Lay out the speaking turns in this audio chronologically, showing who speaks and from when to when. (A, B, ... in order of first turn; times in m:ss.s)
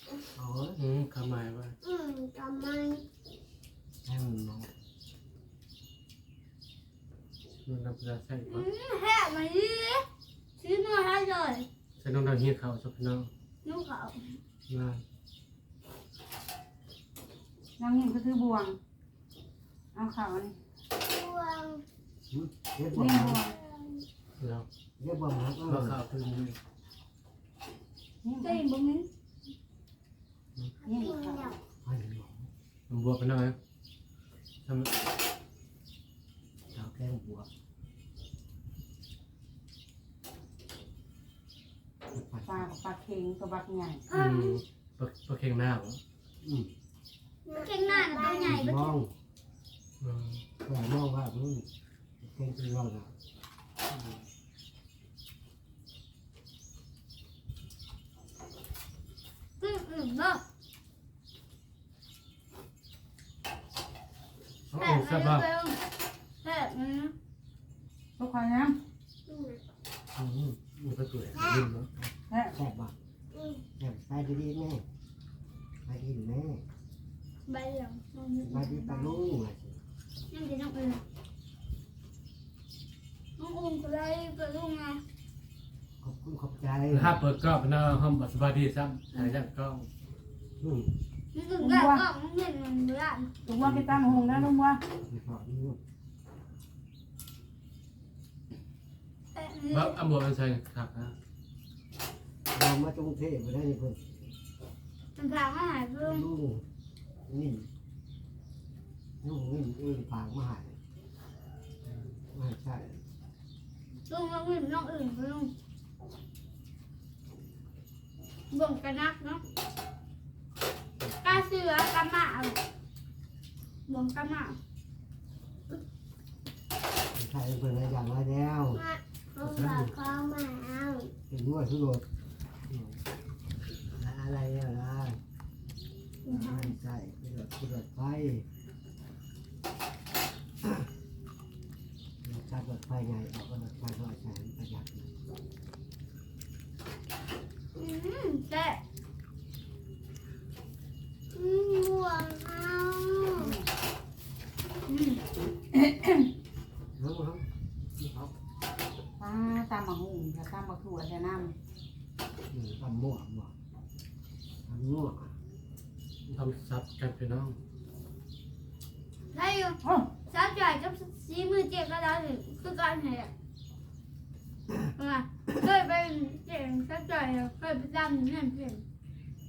0:00.4-0:00.8 A
0:00.8-0:01.7 B
0:01.8-0:03.0 C
0:04.0-0:04.7 A
0:07.6-0:08.6 B
0:08.5-0:10.0 D
0:10.6-0:11.6 D
0:12.0-0:13.3 B
0:13.6-0:14.2 D
0:14.7-0:15.0 B
0:17.8-0:18.8 E
0:19.9-0:20.6 E
0:21.0-0:21.8 C
0:22.3-0:23.4 A
0:22.9-0:23.5 E
0:23.7-0:24.0 C
0:24.4-0:24.6 B
0:25.0-0:26.0 A
0:25.6-0:26.6 B
0:28.2-0:28.6 E
0:28.4-0:29.1 D
0:30.8-0:31.5 C
0:30.8-0:31.6 E
0:31.8-0:32.5 A
0:32.9-0:33.6 B
0:34.6-0:34.9 B
0:36.7-0:37.5 A
0:42.1-0:42.6 A
0:42.5-0:44.0 E
0:44.1-0:44.6 D
0:44.1-0:46.0 B
0:46.4-0:46.7 A
0:47.5-0:49.0 D
0:47.5-0:48.5 C
0:48.3-0:49.1 A
0:50.0-0:50.4 B
0:50.6-0:51.6 A
0:52.2-0:53.1 A
0:59.6-1:00.4 D
1:04.7-1:05.5 B
1:04.8-1:05.8 D
1:06.4-1:07.1 D
1:08.2-1:08.8 E
1:09.3-1:09.6 C
1:10.2-1:11.9 B
1:11.3-1:11.7 C
1:12.0-1:12.9 A
1:13.3-1:13.6 C
1:13.8-1:14.8 A
1:15.8-1:16.6 A
1:17.5-1:19.2 D
1:18.4-1:19.8 A
1:20.3-1:21.0 D
1:23.4-1:25.0 D
1:26.0-1:27.2 A
1:26.9-1:29.9 B
1:30.6-1:30.9 A
1:31.3-1:33.3 D
1:31.6-1:32.0 E
1:33.4-1:34.8 E
1:33.6-1:35.8 A
1:39.4-1:39.9 D
1:39.7-1:41.1 B
1:42.5-1:44.3 A
1:45.2-1:46.3 D
1:46.0-1:46.6 A
1:47.3-1:47.7 A
1:49.2-1:50.8 A
1:52.3-1:53.0 A
1:54.1-1:55.5 D
1:58.5-1:59.4 D
2:01.2-2:02.6 D
2:03.9-2:04.6 D
2:07.1-2:08.8 A
2:08.8-2:11.1 C
2:09.4-2:09.8 B
2:11.3-2:12.0 A
2:12.7-2:13.0 A
2:13.9-2:15.2 A
2:16.3-2:18.4 A
2:22.2-2:25.1 A
2:27.8-2:28.8 D
2:31.3-2:33.5 C
2:33.4-2:33.6 E
2:34.9-2:36.3 E
2:37.0-2:37.4 A
2:38.0-2:38.3 A
2:39.2-2:41.5 E
2:42.5-2:43.5 A
2:44.6-2:45.3 A
2:46.3-2:47.6 B
2:49.3-2:53.3 D
2:49.8-2:50.1 E
2:55.0-2:58.8 D